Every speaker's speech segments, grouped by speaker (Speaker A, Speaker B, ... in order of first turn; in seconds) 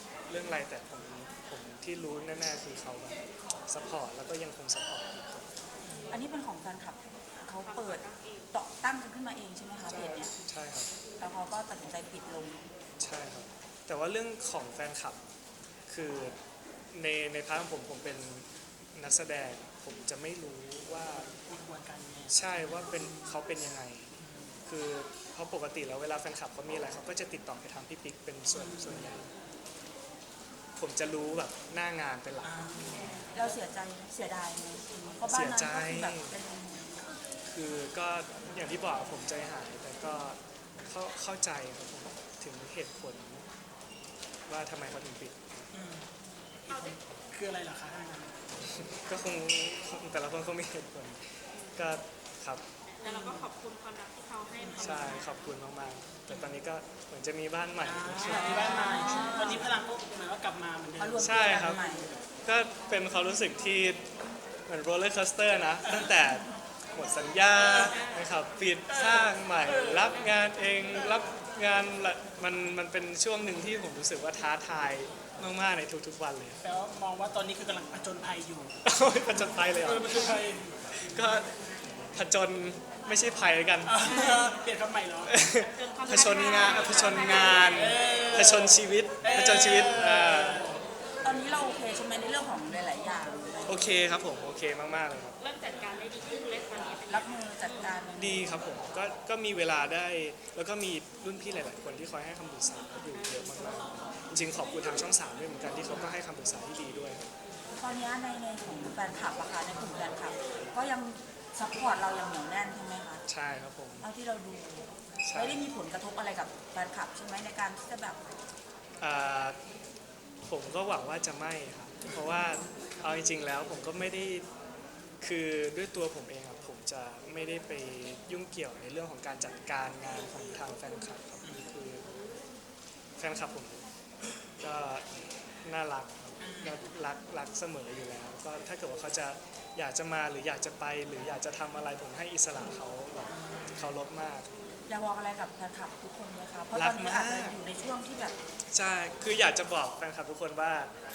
Speaker A: 0.3-5.5, 9.9-10.9, 13.0-15.2, 15.9-16.4, 16.9-21.3, 22.3-24.1, 24.7-29.3, 30.8-33.3, 35.3-36.4, 37.5-43.5, 44.5-45.6, 48.6-52.6, 54.8-58.6, 61.2-61.8, 62.5-64.0, 64.7-76.6, 78.8-80.4, 80.9-81.5, 82.1-84.2, 85.3-90.7, 93.7-95.4, 98.2-107.3, 113.3-114.1, 115.2-115.6, 119.0-119.6, 120.5-124.5, 125.2-132.0, 133.2-133.8, 134.6-135.1, 135.6-144.5, 146.7-147.6, 148.7-150.9
Speaker B: 5.8-6.1, 21.4-23.2, 24.2-24.6, 28.5-29.2, 32.4-33.3, 45.7-46.1, 46.6-48.6, 54.6-55.2, 56.3-56.6, 57.8-62.2, 68.9-70.3, 76.6-78.8, 79.8-80.9, 83.8-85.4, 86.2-90.8, 136.4-136.8, 143.3-144.0
Speaker C: 6.1-10.3, 11.2-12.6, 33.3-36.9, 53.0-53.5, 58.3-59.7, 61.0-62.1, 91.2-93.9, 97.1-98.5, 107.8-113.2, 114.0-118.2, 144.9-148.4
Speaker D: 7.7-8.4, 46.7-47.0, 52.9-55.2, 58.2-59.2, 67.8-68.3, 84.1-84.4, 85.7-88.0, 95.4-98.0